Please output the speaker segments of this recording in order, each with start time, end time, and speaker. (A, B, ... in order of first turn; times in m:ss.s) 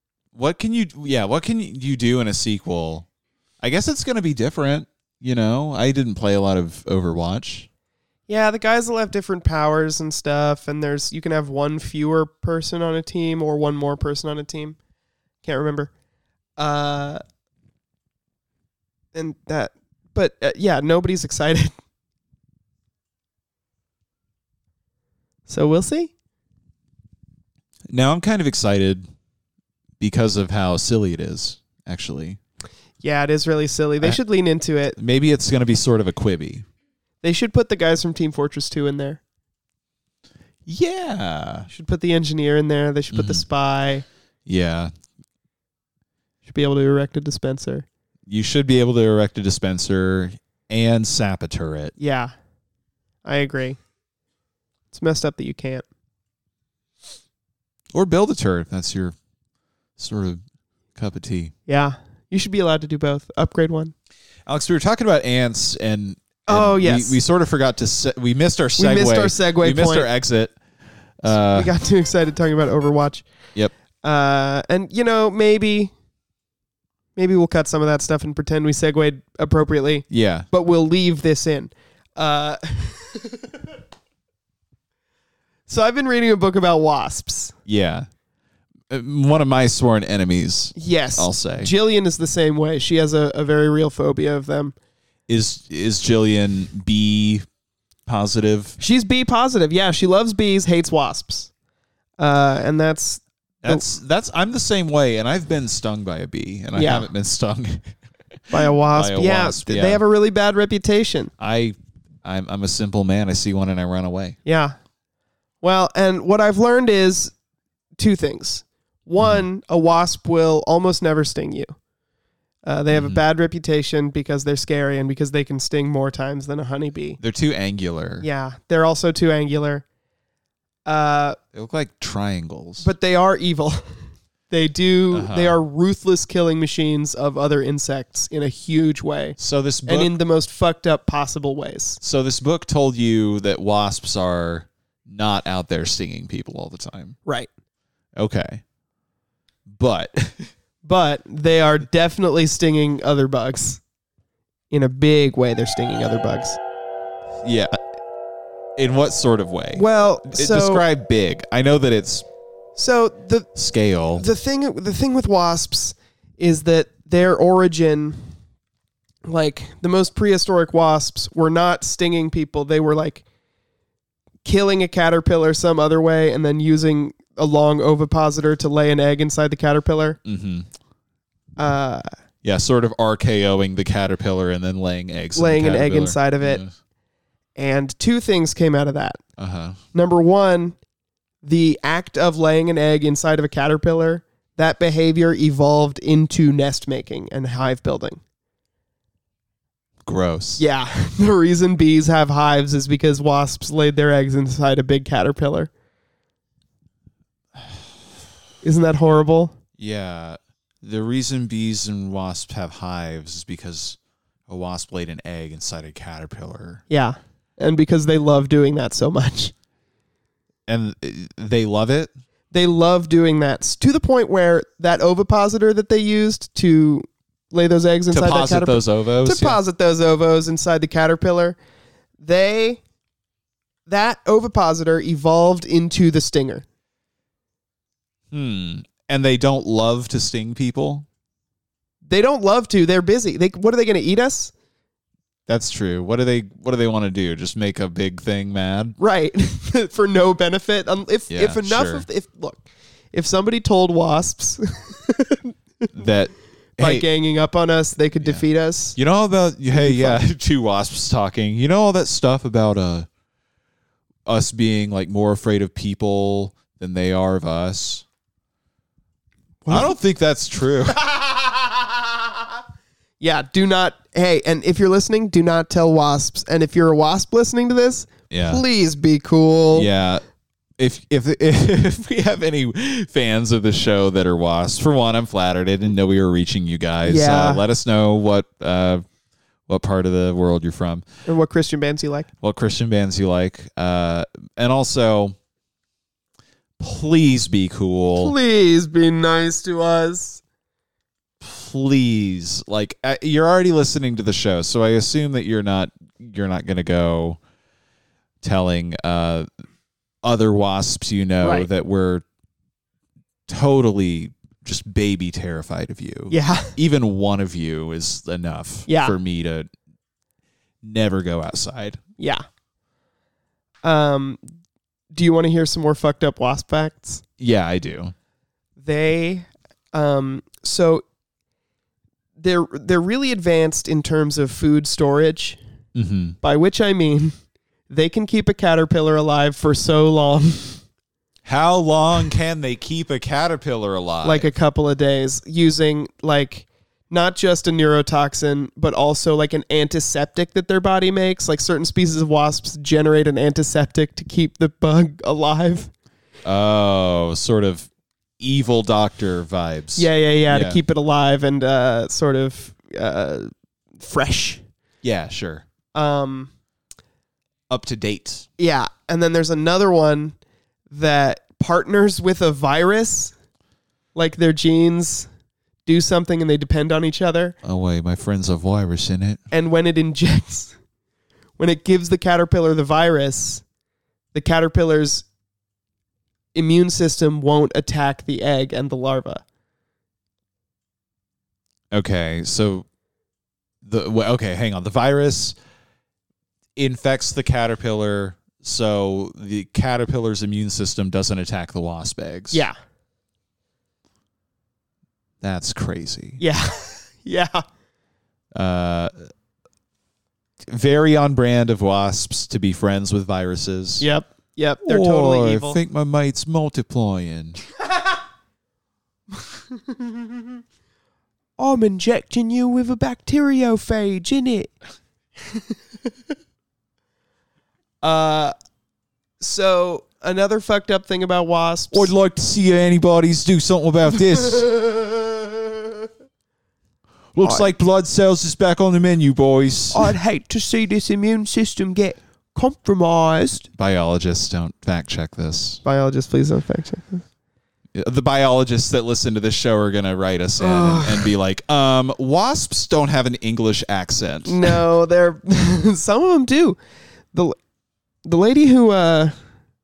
0:00.4-0:03.1 A
0:03.6-0:07.7 A
0:08.3-0:14.8 B
0:15.4-0:15.9 B
0:16.6-0:17.2 B
0:19.1-0:21.7 B
0:25.5-0:26.1 B
0:27.9-0:29.1 A
0:30.0-0:32.4 A
0:33.0-0:35.0 B
0:35.0-0:36.6 A
0:37.2-0:39.2 B
0:40.6-0:41.7 A
0:41.7-0:44.0 B
0:43.1-0:43.4 A
0:44.4-0:44.9 A
0:46.4-0:47.9 B
0:48.3-0:51.9 A
0:52.0-0:52.3 B
0:53.2-0:53.8 B
0:54.9-0:55.8 B
0:57.9-0:59.1 A
1:00.0-1:00.4 A
1:01.0-1:01.5 A
1:01.7-1:03.9 B
1:04.4-1:10.6 A
1:06.5-1:07.2 B
1:08.8-1:10.1 B
1:11.2-1:11.7 A
1:11.3-1:13.3 B
1:14.0-1:15.9 B
1:17.2-1:23.4 B
1:20.1-1:20.5 A
1:25.7-1:27.6 B
1:27.6-1:28.1 A
1:28.9-1:31.7 A
1:30.8-1:34.8 B
1:35.3-1:37.4 A
1:38.1-1:38.8 A
1:38.8-1:41.5 B
1:42.2-1:43.8 B
1:43.6-1:47.8 A
1:46.8-1:47.1 B
1:48.5-1:51.3 B
1:48.8-1:50.0 A
1:51.4-1:54.4 A
1:54.4-1:54.8 B
1:55.6-1:57.3 B
1:58.0-2:01.8 B
1:59.2-1:59.4 A
2:02.6-2:07.2 B
2:02.9-2:03.2 A
2:07.2-2:08.3 A
2:08.2-2:09.8 B
2:10.9-2:11.4 B
2:11.5-2:12.9 A
2:12.8-2:13.8 B
2:14.5-2:22.0 B
2:15.1-2:15.6 A
2:19.4-2:20.1 A
2:22.0-2:27.2 A
2:28.2-2:28.6 A
2:29.6-2:30.5 A
2:30.8-2:33.8 B
2:34.7-2:36.6 B
2:37.4-2:37.8 A
2:38.8-2:42.2 A
2:39.7-2:40.8 B
2:42.8-2:43.5 B
2:43.6-2:44.2 A
2:44.1-2:48.3 B
2:49.2-2:53.2 B
2:54.4-3:00.2 B
3:00.2-3:00.7 A
3:01.6-3:02.1 B
3:02.4-3:06.7 A
3:05.4-3:06.6 B
3:07.6-3:09.2 B
3:09.4-3:09.8 A
3:09.9-3:10.8 B
3:11.4-3:18.2 B
3:20.0-3:20.6 A
3:20.6-3:25.7 B
3:28.6-3:29.6 B
3:29.8-3:36.8 A
3:36.9-3:39.5 B
3:40.7-3:42.1 A
3:42.5-3:51.6 B
3:48.1-3:49.6 A
3:52.2-3:52.8 B
3:53.9-3:56.6 B
3:58.3-4:01.0 A
4:02.0-4:04.5 B
4:05.5-4:09.0 A
4:09.0-4:15.5 B
4:11.3-4:12.0 A
4:15.9-4:17.0 A
4:16.8-4:19.0 B
4:19.0-4:23.1 A
4:19.7-4:20.2 B
4:24.2-4:28.0 A
4:29.6-4:30.0 B
4:29.7-4:31.0 A
4:30.9-4:31.7 B
4:33.2-4:39.9 B
4:38.3-4:38.6 A
4:39.7-4:40.2 A
4:40.8-4:49.0 A
4:47.0-4:47.6 B
4:49.7-4:51.0 A
4:51.2-4:52.3 B
4:52.4-4:55.4 A
4:56.8-4:58.3 A
4:58.2-5:00.4 B
5:01.4-5:07.4 A
5:08.4-5:09.5 A
5:10.2-5:12.2 A
5:11.4-5:11.7 B
5:13.5-5:19.7 A
5:16.3-5:16.8 B
5:18.9-5:19.1 B
5:20.8-5:22.0 A
5:22.2-5:22.4 B
5:23.8-5:24.4 B
5:25.1-5:27.2 B
5:27.4-5:28.1 A
5:28.8-5:31.0 B
5:32.4-5:35.6 B
5:36.0-5:36.4 A
5:36.4-5:37.4 B
5:37.9-5:40.8 B
5:41.4-5:44.5 A
5:44.2-5:55.9 B
5:56.4-5:57.9 A
5:58.4-6:00.8 A
6:00.0-6:04.6 B
6:05.0-6:05.6 A
6:06.0-6:06.5 B
6:07.7-6:08.5 A
6:08.6-6:10.4 B
6:10.9-6:13.3 B
6:14.1-6:15.3 B
6:15.9-6:17.6 B
6:17.6-6:19.4 A
6:19.5-6:20.8 B
6:21.6-6:23.6 B
6:24.3-6:25.2 B
6:26.5-6:29.4 B
6:31.9-6:32.9 A
6:33.8-6:35.6 A
6:36.8-6:42.6 A
6:42.5-6:42.8 B
6:45.4-6:46.4 A
6:46.4-6:47.6 B
6:48.5-6:49.2 A
6:50.6-6:54.1 A
6:54.0-6:55.8 B
6:54.8-6:57.6 A
6:59.9-7:00.2 B
7:01.6-7:04.7 B
7:08.0-7:08.5 B
7:09.4-7:12.1 B
7:11.9-7:14.7 A
7:14.6-7:15.5 B
7:17.4-7:20.1 A
7:17.4-7:17.7 B
7:19.9-7:23.7 B
7:23.7-7:25.8 A
7:25.8-7:27.2 B
7:28.0-7:34.7 A
7:30.6-7:31.3 B
7:34.5-7:36.8 B
7:38.2-7:39.4 B